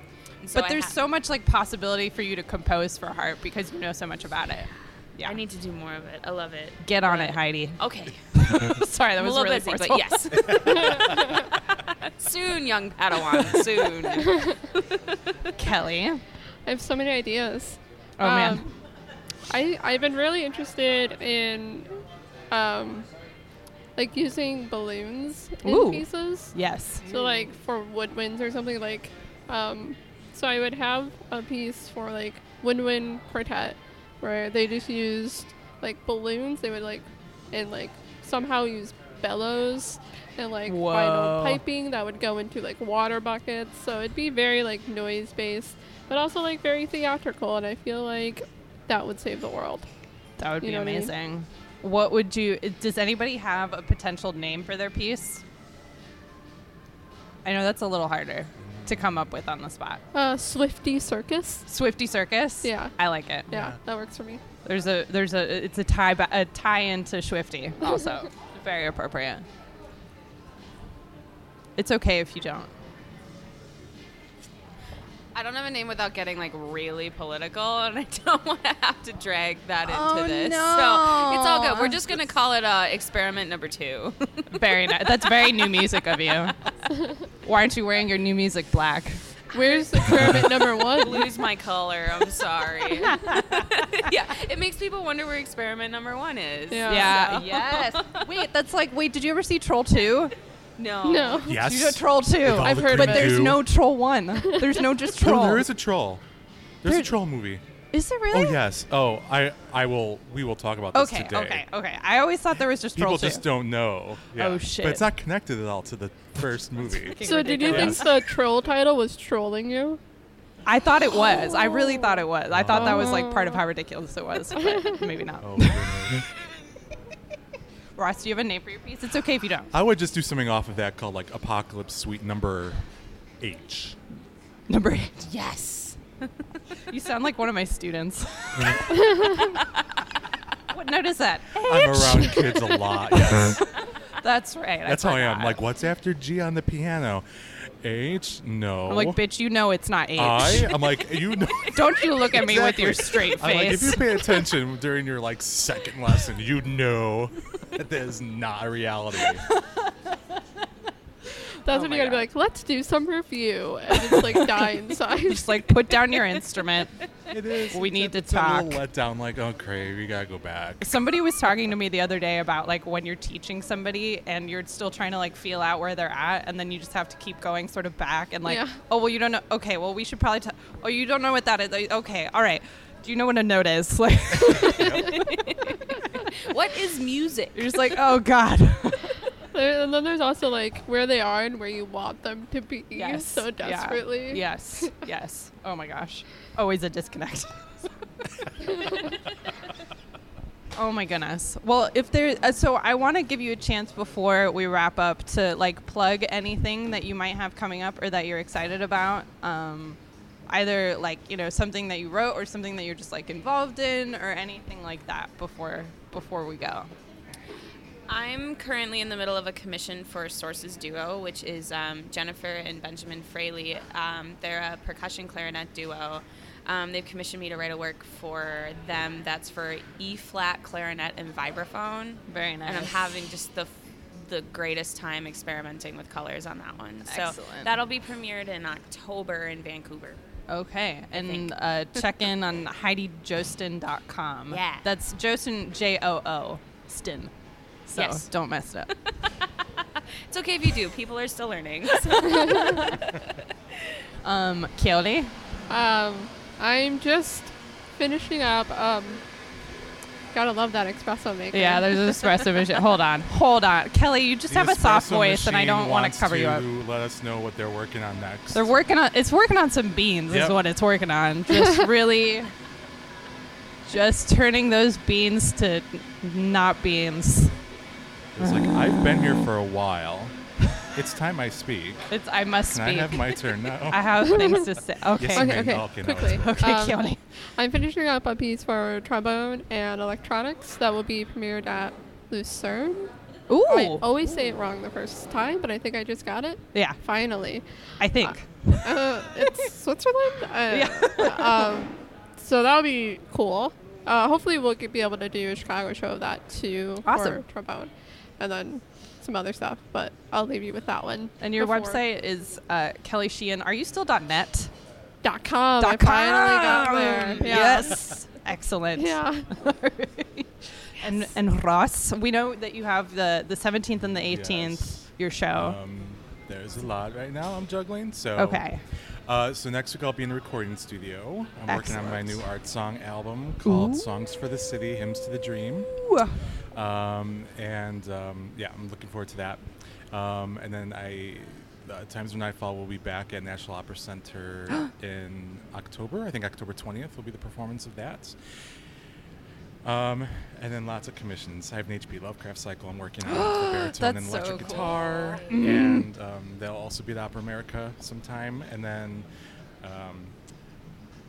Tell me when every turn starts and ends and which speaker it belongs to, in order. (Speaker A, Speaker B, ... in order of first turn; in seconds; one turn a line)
Speaker A: 0.4-0.9
Speaker B: 0.5-5.4
Speaker A: 5.2-15.5
Speaker B: 6.8-7.8
Speaker B: 8.3-10.6
Speaker C: 10.6-11.4
Speaker C: 14.2-14.6
Speaker B: 15.6-16.2
Speaker C: 16.6-18.8
Speaker B: 18.2-18.7
Speaker C: 19.5-21.9
Speaker C: 22.5-23.1
Speaker C: 23.9-26.6
Speaker B: 25.6-27.1
Speaker C: 27.1-49.9
Speaker B: 40.6-41.6
Speaker B: 50.4-55.4
Speaker C: 50.6-51.1
Speaker B: 57.4-60.0
Speaker D: 58.6-59.2
Speaker C: 60.1-61.6
Speaker B: 61.7-63.5
Speaker C: 62.6-62.9
Speaker C: 63.5-64.4
Speaker D: 63.5-63.8
Speaker B: 64.6-69.5
Speaker B: 71.8-72.7
Speaker A: 75.3-86.0
Speaker B: 79.8-82.2
Speaker B: 84.5-86.5
Speaker C: 86.9-87.2
Speaker B: 87.4-89.2
Speaker A: 89.5-98.3
Speaker C: 89.5-91.3
Speaker B: 92.9-93.8
Speaker C: 96.7-97.2
Speaker B: 96.9-100.3
Speaker A: 100.8-101.5
Speaker C: 101.0-101.6
Speaker D: 101.4-103.6
Speaker B: 101.5-105.7
Speaker C: 102.5-103.6
Speaker C: 104.3-104.8
Speaker D: 105.1-106.2
Speaker D: 106.8-107.6
Speaker B: 106.8-107.2
Speaker B: 107.9-108.6
Speaker D: 108.3-111.6
Speaker B: 110.9-113.5
Speaker D: 112.9-118.1
Speaker B: 114.3-115.1
Speaker B: 116.9-118.2
Speaker C: 117.2-120.0
Speaker B: 120.6-126.2
Speaker C: 121.5-122.0
Speaker D: 122.5-123.3
Speaker C: 122.7-123.6
Speaker D: 125.4-126.2
Speaker B: 128.0-129.7
Speaker D: 129.7-132.8
Speaker D: 133.4-134.0
Speaker B: 134.7-135.3
Speaker A: 135.2-136.3
Speaker B: 136.9-138.8
Speaker A: 139.3-139.7
Speaker B: 140.7-143.6
Speaker D: 141.6-143.6
Speaker B: 144.2-145.6
Speaker D: 144.8-147.2
Speaker D: 147.8-149.2
Speaker B: 148.9-150.8
Speaker D: 150.2-159.4
Speaker B: 151.7-154.2
Speaker B: 159.5-160.4
Speaker B: 161.6-162.3
Speaker C: 161.6-165.7
Speaker B: 164.1-167.0
Speaker D: 167.3-171.0
Speaker B: 167.7-168.8
Speaker B: 170.8-185.5
Speaker C: 178.4-178.8
Speaker D: 184.5-185.3
Speaker A: 185.1-187.8
Speaker B: 187.5-189.2
Speaker C: 189.5-194.9
Speaker B: 192.9-197.7
Speaker B: 200.7-216.9
Speaker A: 218.1-240.2
Speaker B: 232.3-232.9
Speaker B: 237.0-237.7
Speaker B: 240.5-247.3
Speaker A: 241.1-242.0
Speaker A: 244.5-244.9
Speaker B: 247.9-248.9
Speaker A: 247.9-248.2
Speaker A: 250.3-253.9
Speaker C: 252.3-252.7
Speaker B: 254.2-255.3
Speaker C: 255.7-259.2
Speaker C: 260.3-262.8
Speaker B: 261.5-266.7
Speaker D: 264.5-268.7
Speaker B: 268.5-272.5
Speaker D: 270.3-270.6
Speaker B: 273.9-277.6
Speaker D: 278.3-280.3
Speaker B: 278.4-278.7
Speaker D: 280.9-282.0
Speaker B: 282.1-287.2
Speaker D: 282.7-284.6
Speaker C: 284.3-284.7
Speaker D: 285.2-286.5
Speaker C: 285.3-287.0
Speaker C: 287.6-293.1
Speaker B: 293.5-294.1
Speaker C: 293.7-297.6
Speaker B: 298.0-298.8
Speaker C: 298.2-312.0
Speaker B: 300.7-301.7
Speaker B: 307.0-307.4
Speaker B: 311.4-314.7
Speaker C: 315.2-318.1
Speaker B: 315.8-325.8
Speaker C: 318.9-319.5
Speaker D: 324.2-328.7
Speaker B: 328.4-328.8
Speaker D: 329.3-336.0
Speaker B: 331.7-332.4
Speaker B: 333.6-334.1
Speaker B: 335.9-336.5
Speaker D: 336.7-348.4
Speaker D: 349.8-359.3
Speaker B: 353.2-356.1
Speaker A: 354.6-355.5
Speaker D: 359.8-360.3